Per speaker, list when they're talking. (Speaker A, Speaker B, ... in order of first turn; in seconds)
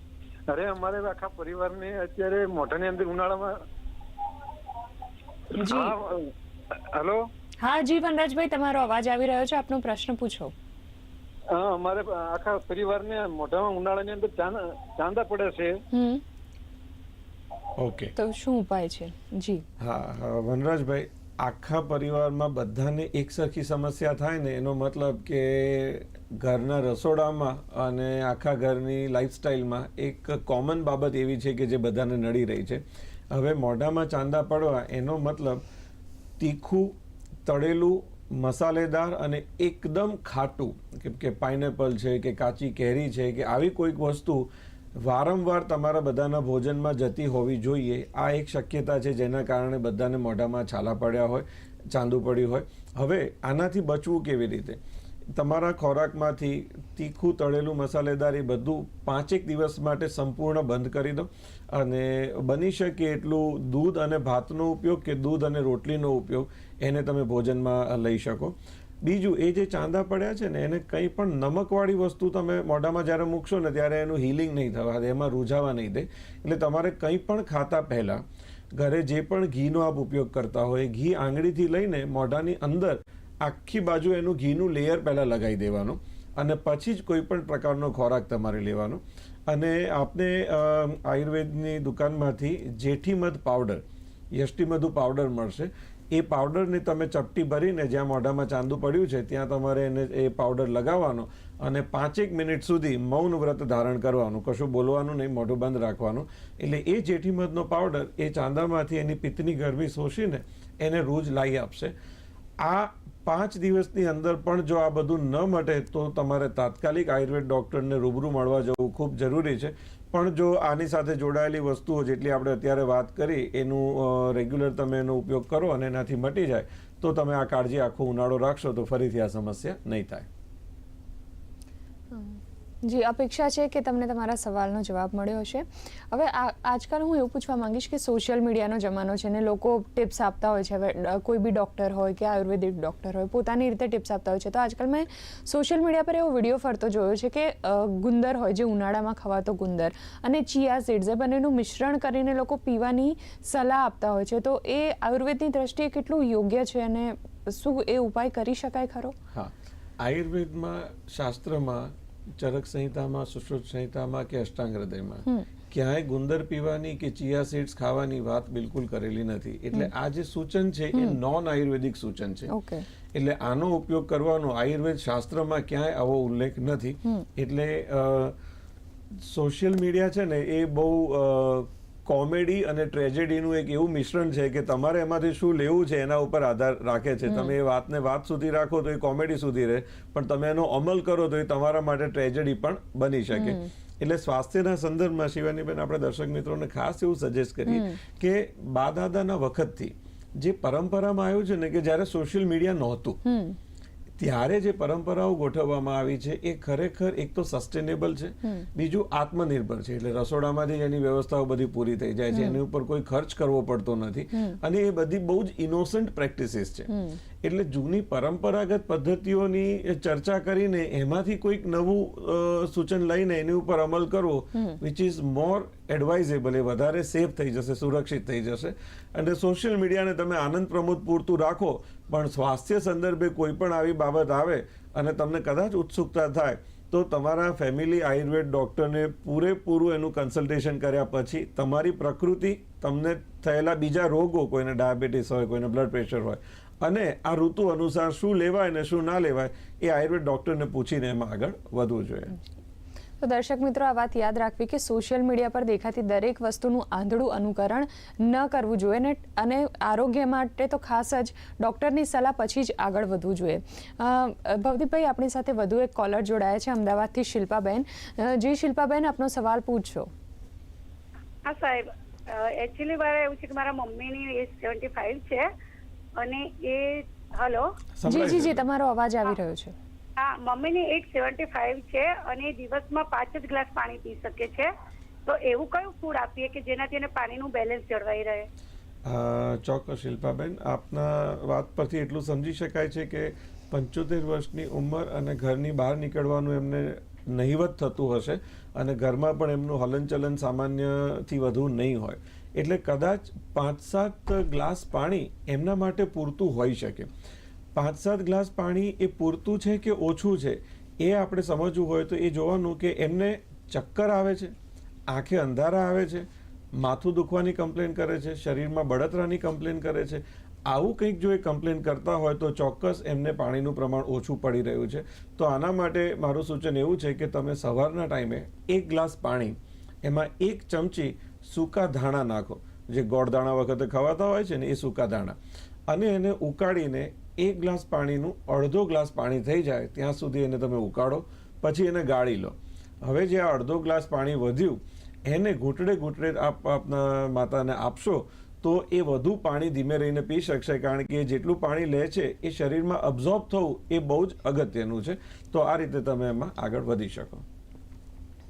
Speaker A: 0.5-3.6, 5.6-7.2, 11.5-15.8
Speaker B: 5.6-5.9, 7.6-10.5, 15.9-16.2, 18.2-19.6, 132.1-159.2, 172.5-172.8, 187.2-187.5, 193.3-193.7, 197.7-198.0, 203.2-203.6, 212.3-212.6, 216.9-217.2, 253.2-270.1, 278.1-279.7
Speaker C: 17.8-18.1, 19.8-35.6, 36.4-54.8, 55.3-111.9, 112.6-130.3, 159.3-172.5, 173.1-178.4, 179.2-203.2, 204.2-216.9, 217.4-252.3, 278.0-278.6, 289.0-307.1, 307.7-314.5, 315.1-335.4, 335.9-357.4
Speaker D: 271.5-275.4, 276.2-277.7, 280.2-284.7, 285.3-288.4